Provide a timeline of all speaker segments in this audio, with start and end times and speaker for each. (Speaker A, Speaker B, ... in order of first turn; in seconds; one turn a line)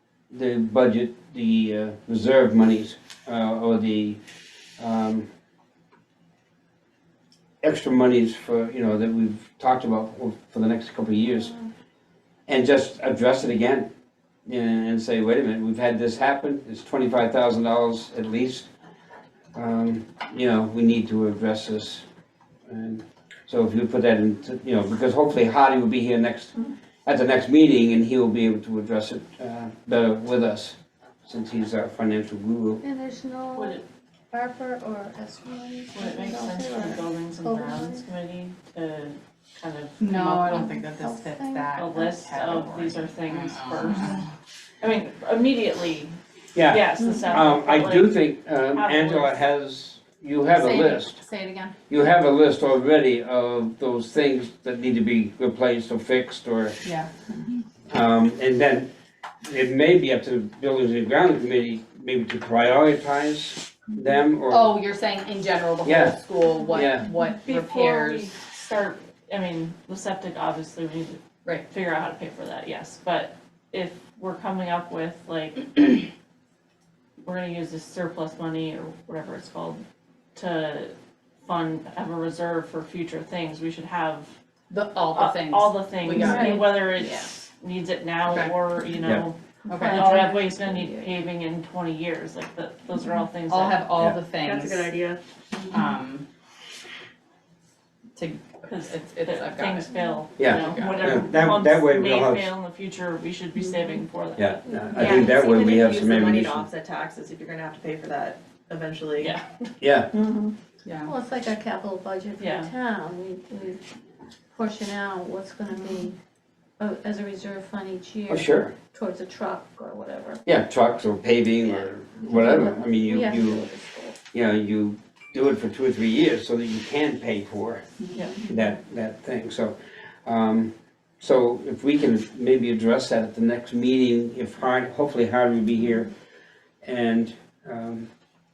Speaker A: 0.3-4.2
Speaker A: 4.8-5.3
Speaker A: 7.6-11.6
Speaker A: 12.5-13.9
Speaker A: 14.5-18.7
Speaker A: 19.5-22.0
Speaker A: 22.7-32.8
Speaker B: 32.8-38.1
Speaker C: 33.5-33.8
Speaker C: 35.9-40.0
Speaker D: 40.0-44.3
Speaker B: 40.0-41.7
Speaker C: 41.7-44.3
Speaker C: 44.8-48.2
Speaker A: 46.5-51.2
Speaker B: 47.0-47.3
Speaker C: 48.7-49.4
Speaker D: 50.5-51.8
Speaker A: 51.9-56.8
Speaker D: 56.8-57.1
Speaker A: 57.9-58.9
Speaker A: 59.4-64.7
Speaker D: 64.5-68.3
Speaker A: 65.8-66.2
Speaker A: 66.7-67.1
Speaker C: 67.1-76.1
Speaker C: 77.2-79.8
Speaker C: 80.3-84.3
Speaker D: 84.7-86.5
Speaker C: 85.1-93.8
Speaker B: 86.1-87.2
Speaker D: 88.3-88.5
Speaker B: 89.7-91.1
Speaker D: 89.7-90.2
Speaker D: 93.5-94.9
Speaker E: 94.5-95.2
Speaker D: 95.7-96.2
Speaker D: 98.2-99.9
Speaker C: 98.7-105.3
Speaker A: 100.4-102.5
Speaker D: 100.4-101.2
Speaker A: 104.4-106.7
Speaker E: 104.9-109.4
Speaker C: 109.2-109.5
Speaker A: 109.8-110.1
Speaker D: 110.8-111.1
Speaker B: 111.0-113.8
Speaker C: 112.4-112.7
Speaker B: 114.5-116.2
Speaker B: 116.8-120.4
Speaker A: 118.3-118.8
Speaker A: 120.5-123.7
Speaker B: 121.8-124.2
Speaker A: 124.3-127.8
Speaker C: 128.2-128.4
Speaker A: 128.5-136.1
Speaker A: 136.8-138.1